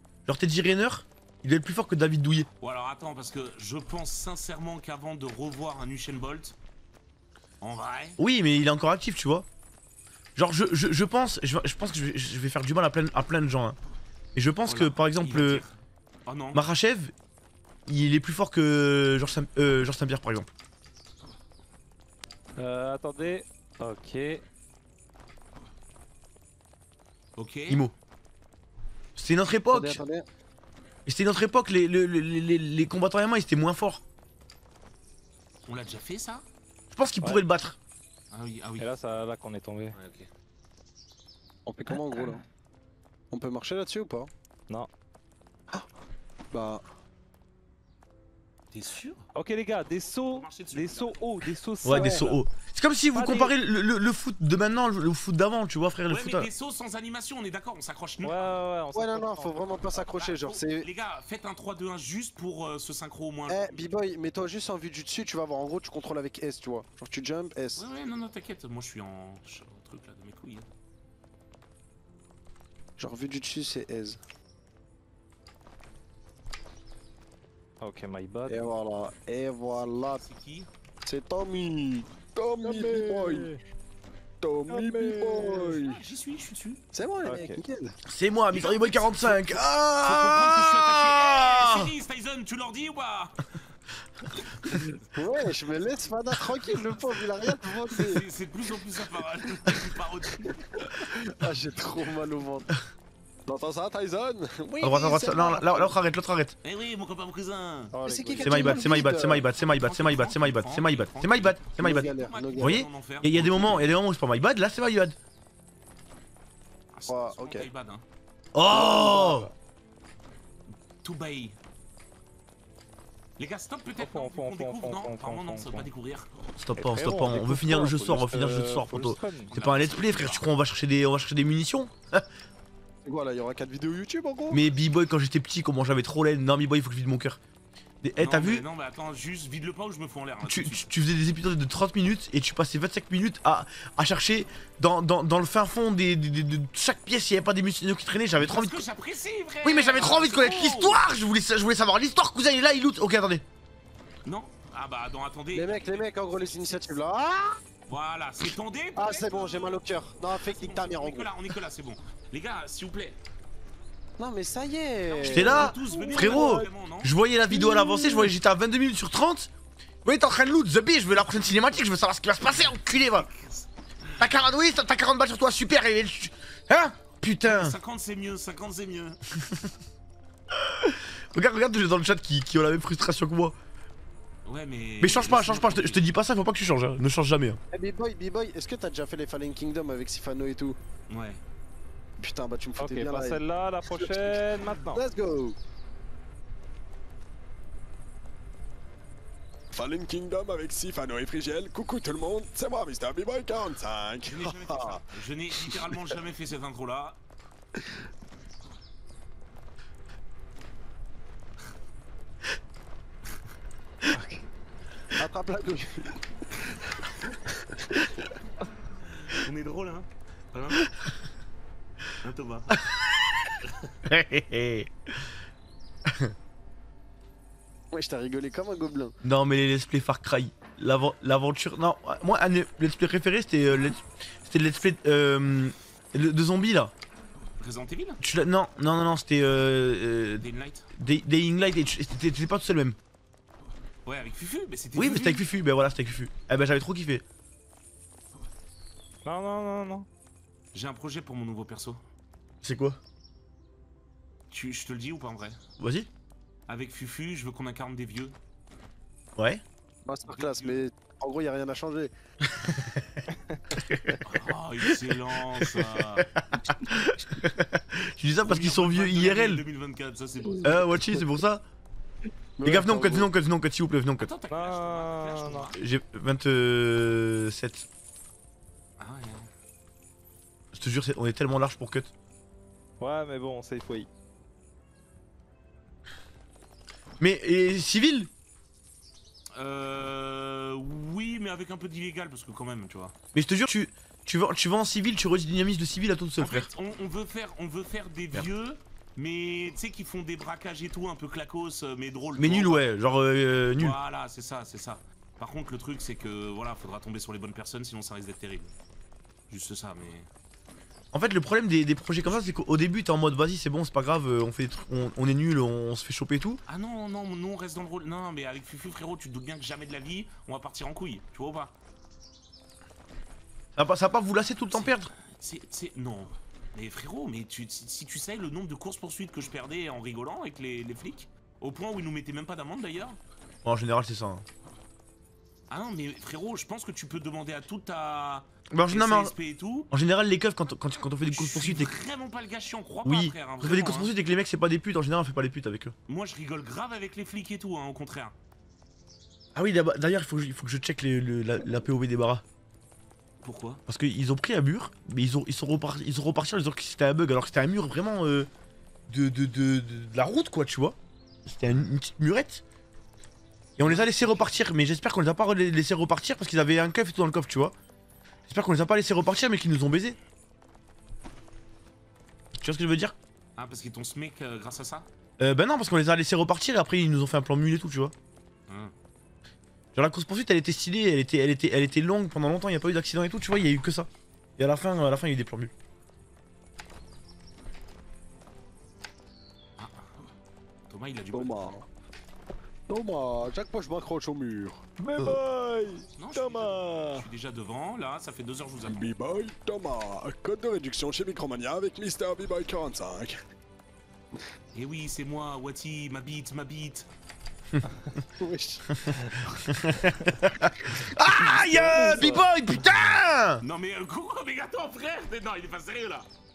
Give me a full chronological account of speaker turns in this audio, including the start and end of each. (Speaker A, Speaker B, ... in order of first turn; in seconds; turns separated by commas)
Speaker A: 0.2-2.5, Speaker B: 2.6-6.5, Speaker B: 7.6-8.2, Speaker A: 8.2-9.5, Speaker A: 10.3-13.8, Speaker A: 14.3-15.6, Speaker B: 14.7-15.7, Speaker B: 16.3-16.6, Speaker A: 16.5-17.1, Speaker A: 17.9-20.5, Speaker C: 22.6-24.4, Speaker B: 27.4-27.9, Speaker A: 29.2-30.0, Speaker D: 29.7-30.2, Speaker A: 31.1-34.0, Speaker B: 35.7-36.4, Speaker A: 36.9-37.8, Speaker B: 38.3-38.9, Speaker C: 38.8-40.0, Speaker B: 39.9-40.3, Speaker D: 41.6-42.4, Speaker C: 41.9-42.4, Speaker D: 43.3-44.3, Speaker D: 46.5-46.8, Speaker B: 48.7-49.2, Speaker C: 49.3-52.4, Speaker B: 50.0-51.2, Speaker A: 51.8-56.5, Speaker D: 51.9-52.2, Speaker C: 53.1-53.5, Speaker B: 56.1-58.6, Speaker C: 58.2-59.6, Speaker D: 58.9-60.9, Speaker B: 59.9-63.9, Speaker D: 63.5-67.8, Speaker B: 67.8-70.7, Speaker D: 73.0-74.2, Speaker C: 77.8-78.7, Speaker D: 78.5-80.2, Speaker B: 80.1-80.7, Speaker D: 81.0-81.7, Speaker E: 81.6-83.5, Speaker D: 82.6-83.5, Speaker E: 84.4-86.0, Speaker C: 84.7-85.8, Speaker D: 84.7-85.6, Speaker B: 85.5-86.8, Speaker D: 86.9-88.0, Speaker A: 87.2-87.5, Speaker A: 88.1-91.9, Speaker B: 88.5-93.5, Speaker B: 94.7-95.0, Speaker D: 95.1-98.2, Speaker B: 97.9-100.6, Speaker D: 100.8-102.7, Speaker D: 103.5-106.0, Speaker A: 104.8-106.5, Speaker B: 106.6-107.9, Speaker C: 107.9-109.2, Speaker D: 108.0-109.5, Speaker A: 108.4-115.2, Speaker B: 109.3-113.9, Speaker D: 111.8-112.8, Speaker B: 116.9-118.0, Speaker D: 117.1-117.7, Speaker A: 118.5-119.5, Speaker D: 118.7-119.5, Speaker B: 121.0-121.5, Speaker B: 123.4-126.3, Speaker C: 124.0-125.9, Speaker A: 126.6-132.2, Speaker C: 126.8-129.5, Speaker B: 129.5-130.5, Speaker D: 133.0-134.6, Speaker A: 134.5-137.4, Speaker A: 138.0-138.6, Speaker B: 138.2-140.9, Speaker A: 140.4-148.8, Speaker B: 148.4-151.0, Speaker A: 149.6-153.4, Speaker B: 154.2-157.1, Speaker D: 155.5-157.6, Speaker B: 157.9-163.2, Speaker D: 158.9-161.3, Speaker D: 164.2-165.8, Speaker B: 165.1-167.1, Speaker A: 165.3-169.5, Speaker C: 165.8-166.7, Speaker D: 167.5-168.3, Speaker A: 170.0-173.3, Speaker B: 172.6-174.2, Speaker A: 174.2-177.8, Speaker B: 177.4-179.2, Speaker A: 179.3-179.7, Speaker A: 180.5-183.5, Speaker B: 184.4-186.0, Speaker A: 185.0-187.6, Speaker D: 187.7-190.8, Speaker B: 191.1-191.4, Speaker D: 192.2-195.6, Speaker C: 192.8-195.0, Speaker E: 199.7-204.6, Speaker B: 204.2-207.2, Speaker D: 204.6-205.0, Speaker D: 215.1-216.2, Speaker D: 217.5-218.1, Speaker B: 219.0-220.9, Speaker B: 222.2-222.9, Speaker A: 222.7-223.3, Speaker B: 223.6-223.9, Speaker A: 224.1-225.1, Speaker A: 226.1-226.3, Speaker D: 227.9-229.1, Speaker A: 229.2-236.9, Speaker B: 237.6-238.2, Speaker A: 238.2-243.0, Speaker B: 240.4-240.9, Speaker B: 244.1-245.4, Speaker A: 244.9-247.2, Speaker C: 249.2-250.1, Speaker B: 250.7-252.0, Speaker A: 252.6-253.0, Speaker B: 254.5-255.6, Speaker A: 255.8-256.1, Speaker B: 256.7-258.3, Speaker A: 259.4-259.6, Speaker D: 260.1-262.1, Speaker B: 260.2-260.8, Speaker A: 262.6-263.2, Speaker A: 263.7-264.2, Speaker B: 264.2-266.4, Speaker A: 265.6-269.6, Speaker B: 268.4-270.9, Speaker A: 270.6-271.6, Speaker D: 272.6-273.3, Speaker A: 272.6-274.3, Speaker B: 274.2-275.8, Speaker C: 274.5-275.7, Speaker A: 275.7-277.9, Speaker B: 279.0-279.5, Speaker A: 280.7-282.1, Speaker C: 283.0-284.1, Speaker A: 287.2-288.3, Speaker B: 289.5-293.1, Speaker A: 293.3-296.7, Speaker B: 296.4-302.8, Speaker A: 302.4-304.0, Speaker B: 303.8-308.7, Speaker B: 309.5-310.3, Speaker A: 311.1-316.6, Speaker B: 316.7-321.7, Speaker A: 323.8-325.1, Speaker B: 324.7-333.2, Speaker A: 333.6-334.4, Speaker B: 335.7-339.9, Speaker A: 338.7-339.3, Speaker A: 339.9-341.9, Speaker B: 341.3-344.1, Speaker A: 343.0-345.9, Speaker B: 346.1-348.3, Speaker A: 349.5-352.4, Speaker B: 353.4-353.8, Speaker A: 353.9-358.5, Speaker A: 359.1-362.6, Speaker A: 363.8-367.7, Speaker B: 363.8-364.5, Speaker A: 368.5-370.2, Speaker A: 372.6-373.1, Speaker B: 373.6-375.1, Speaker A: 375.4-378.1, Speaker B: 378.7-378.9, Speaker A: 379.9-385.7, Speaker B: 389.8-390.1, Speaker B: 390.9-391.8, Speaker D: 391.3-391.8, Speaker D: 392.9-395.4, Speaker C: 395.0-396.9, Speaker B: 396.2-399.1, Speaker D: 396.4-397.2, Speaker E: 398.9-403.3, Speaker D: 402.7-403.3, Speaker B: 404.7-407.1, Speaker D: 408.4-409.4, Speaker A: 408.9-413.6, Speaker D: 411.4-412.4, Speaker B: 411.4-416.3